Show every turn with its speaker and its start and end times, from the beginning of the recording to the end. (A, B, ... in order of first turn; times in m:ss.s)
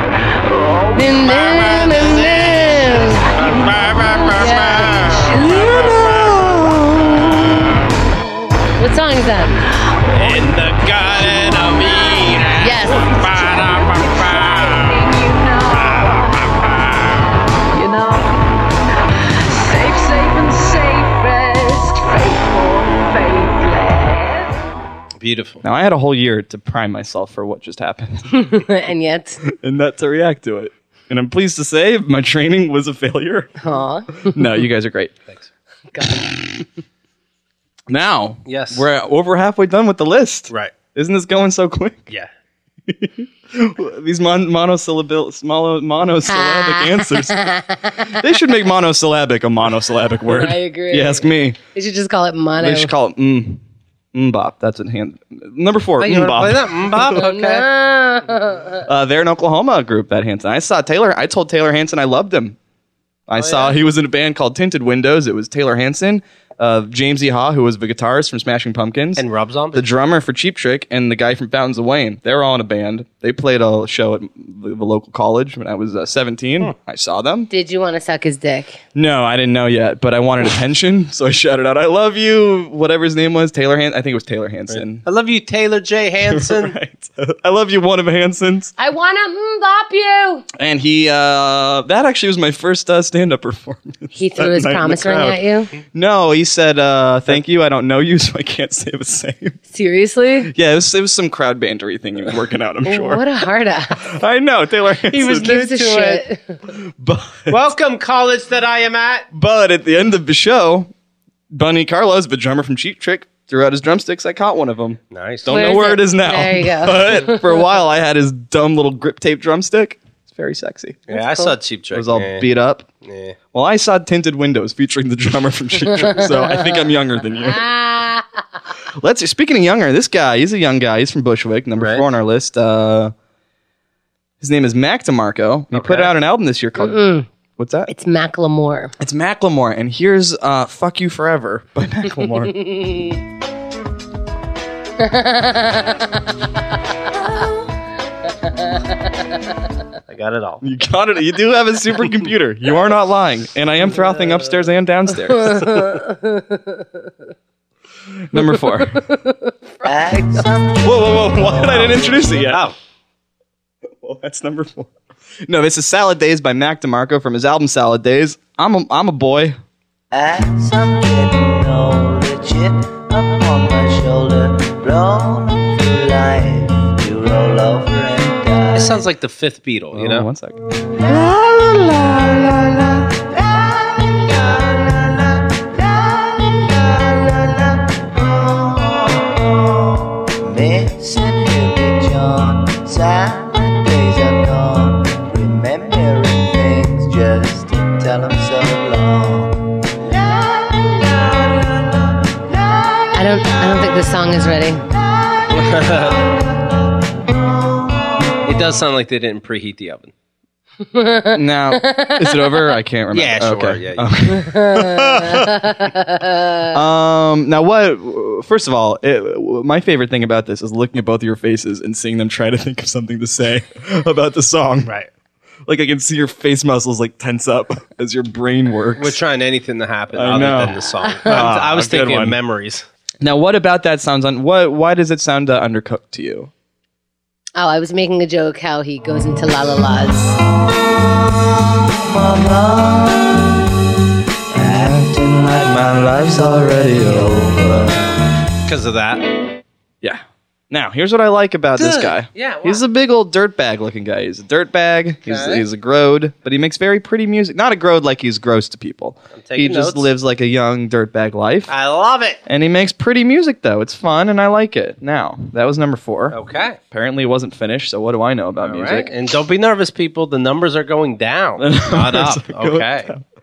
0:00.4-0:06.5 A
0:00.9-0:03.3 B
0:01.5-0:03.0 C
0:04.3-0:05.2 B
0:05.3-0:07.3 D
0:08.8-0:09.6 B
0:10.0-0:16.6 A
0:10.1-0:12.6 C
0:12.6-0:13.0 B
0:17.7-0:24.5 A
0:25.2-0:25.6 C
0:25.6-0:28.5 D
0:28.3-0:29.4 B
0:29.5-0:33.6 D
0:33.6-0:34.4 B
0:34.1-0:35.1 D
0:35.9-0:36.3 B
0:37.9-0:42.1 D
0:38.5-0:38.8 C
0:42.9-0:47.5 D
0:46.3-0:48.2 B
0:48.0-0:51.6 D
0:50.3-0:52.9 B
0:52.6-0:53.6 D
0:54.1-0:57.2 D
0:56.0-0:57.7 C
0:57.2-0:58.8 B
0:58.8-1:02.6 D
1:03.3-1:17.5 D
1:03.3-1:03.7 C
1:09.2-1:09.9 C
1:17.5-1:18.8 B
1:18.9-1:25.0 D
1:24.7-1:26.7 C
1:26.2-1:28.7 D
1:28.8-1:30.4 B
1:30.6-1:39.6 D
1:34.1-1:35.7 B
1:39.7-1:40.5 B
1:40.5-1:43.2 D
1:42.8-1:44.1 B
1:43.9-1:45.7 D
1:45.1-1:46.2 C
1:45.3-1:46.5 B
1:46.7-1:47.6 D
1:47.5-1:49.3 C
1:49.3-1:50.9 D
1:51.5-2:01.0 D
1:55.1-1:55.5 C
1:55.5-1:57.5 B
2:01.1-2:02.5 C
2:01.1-2:01.5 B
2:01.9-2:02.8 D
2:03.0-2:03.4 C
2:03.5-2:07.7 D
2:05.9-2:06.6 B
2:07.4-2:08.2 B
2:08.9-2:13.1 D
2:11.8-2:12.0 C
2:14.4-2:17.0 D
2:15.7-2:16.1 C
2:16.8-2:17.3 B
2:17.6-2:17.9 D
2:17.9-2:18.9 B
2:19.0-2:22.7 D
2:22.6-2:23.2 B
2:25.0-2:26.0 B
2:30.1-2:30.6 C
2:30.6-2:36.0 D
2:35.3-2:36.8 B
2:38.2-2:39.1 D
2:39.8-2:42.5 E
2:40.8-2:42.7 D
2:42.3-2:42.7 C
2:44.0-2:44.9 D
2:45.4-2:49.6 D
2:50.1-2:59.0 E
2:58.7-3:00.3 C
2:59.9-3:02.2 D
3:01.0-3:23.9 E
3:23.1-3:24.8 B
3:24.9-3:28.6 E
3:25.5-3:26.2 C
3:28.4-3:30.1 C
3:30.9-3:32.7 B
3:31.3-3:35.7 D
3:33.1-3:34.2 C
3:34.3-3:36.7 B
3:36.7-3:44.9 D
3:45.7-3:49.2 D
3:49.0-3:52.8 C
3:50.1-3:52.4 D
3:51.0-3:51.4 B
3:53.2-3:56.5 D
3:57.6-4:00.4 B
4:00.3-4:03.6 E
4:04.5-4:08.2 E
4:04.5-4:07.5 D
4:08.7-4:09.3 C
4:10.0-4:21.7 D
4:11.8-4:12.8 C
4:15.2-4:15.6 C
4:19.4-4:20.1 C
4:21.7-4:22.4 C
4:22.4-4:26.4 D
4:26.3-4:26.8 C
4:26.9-4:29.1 D
4:28.6-4:33.1 C
4:31.6-4:33.2 D